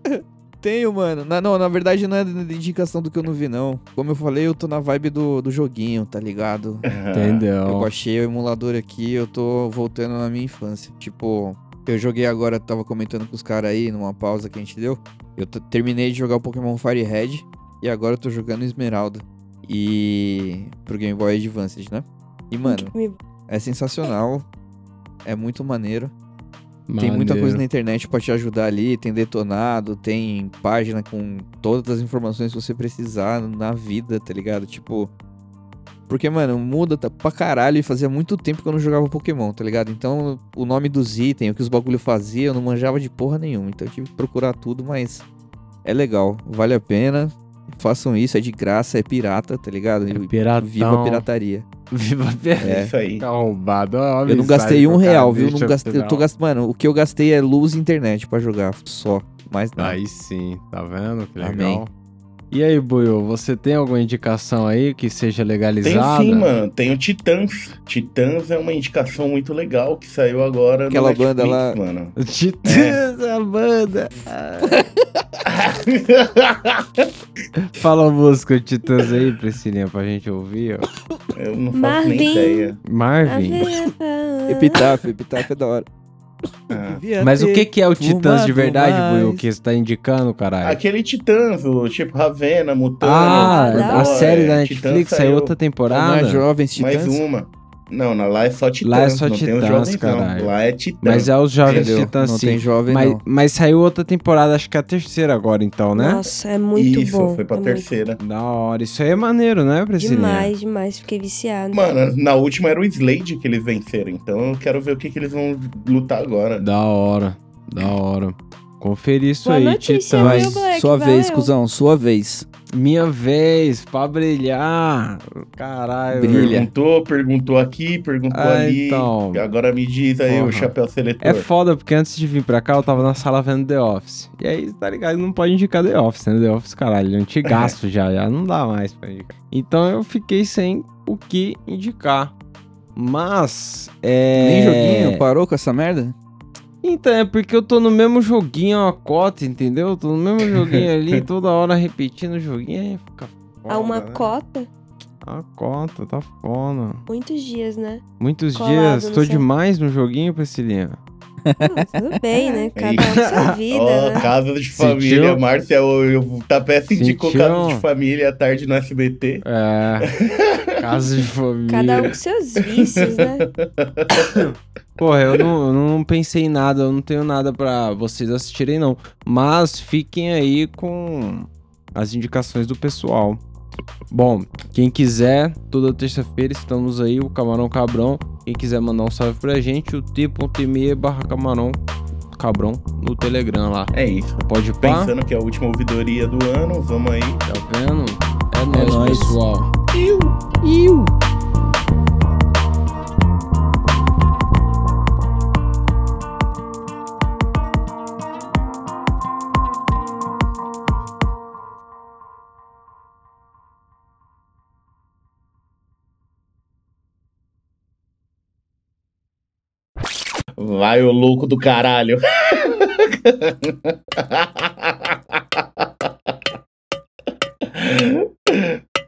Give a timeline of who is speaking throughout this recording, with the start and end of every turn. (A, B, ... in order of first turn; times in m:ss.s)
0:00.1-0:06.8 A
0:06.8-0:07.4 B
0:07.1-0:07.9 C
0:07.6-0:22.9 A
0:22.6-0:23.2 D
0:23.5-0:24.4 A
0:25.2-0:26.1 A
0:26.9-0:27.6 C
0:27.0-0:35.1 A
0:36.1-0:45.2 A
0:45.8-0:51.6 A
0:50.1-0:51.2 C
0:51.9-0:56.3 C
0:52.6-0:52.9 A
0:52.6-0:53.2 B
0:54.2-1:00.0 A
0:59.8-1:01.9 C
1:01.4-1:01.8 A
1:02.5-1:06.5 C
1:05.8-1:13.0 B
1:10.9-1:11.8 A
1:12.2-1:14.8 C
1:15.5-1:17.1 B
1:17.6-1:20.9 C
1:21.3-1:22.8 B
1:21.7-1:25.0 D
1:22.8-1:23.7 C
1:24.5-1:25.9 A
1:26.7-1:27.0 B
1:26.8-1:29.4 A
1:27.2-1:30.8 C
1:30.6-1:35.5 B
1:33.0-1:36.4 C
1:33.3-1:34.3 D
1:35.9-1:37.2 A
1:36.8-1:42.0 B
1:38.8-1:46.2 C
1:41.6-1:43.2 A
1:45.9-1:47.9 D
1:46.7-1:48.2 B
1:48.2-1:50.5 C
1:50.0-1:51.8 D
1:51.7-1:56.6 B
1:56.6-2:00.6 C
1:59.4-2:01.5 D
2:00.2-2:02.4 A
2:02.7-2:06.6 C
2:06.1-2:06.7 A
2:06.2-2:11.5 B
2:08.3-2:09.4 C
2:10.3-2:22.3 C
2:17.5-2:17.7 B
2:22.9-2:25.2 C
2:24.4-2:26.1 A
2:26.8-2:34.3 C
2:30.5-2:30.8 B
2:33.7-2:34.7 D
2:35.2-2:37.0 C
2:37.1-2:38.0 D
2:38.2-2:41.0 C
2:38.5-2:39.4 D
2:41.4-2:42.7 A
2:41.6-2:44.2 D
2:42.7-2:49.4 B
2:43.0-2:43.5 C
2:44.7-2:45.4 C
2:46.9-2:47.8 C
2:49.4-2:50.1 C
2:50.0-2:50.7 B
2:50.8-2:52.1 C
2:51.7-2:53.5 D
2:52.6-2:54.5 B
2:54.3-3:03.4 C
3:04.1-3:11.8 C
3:12.3-3:15.1 C
3:13.9-3:17.4 B
3:17.4-3:19.7 C
3:18.7-3:19.4 A
3:19.9-3:20.6 B
3:40.6-3:46.1 B
3:47.7-3:48.8 B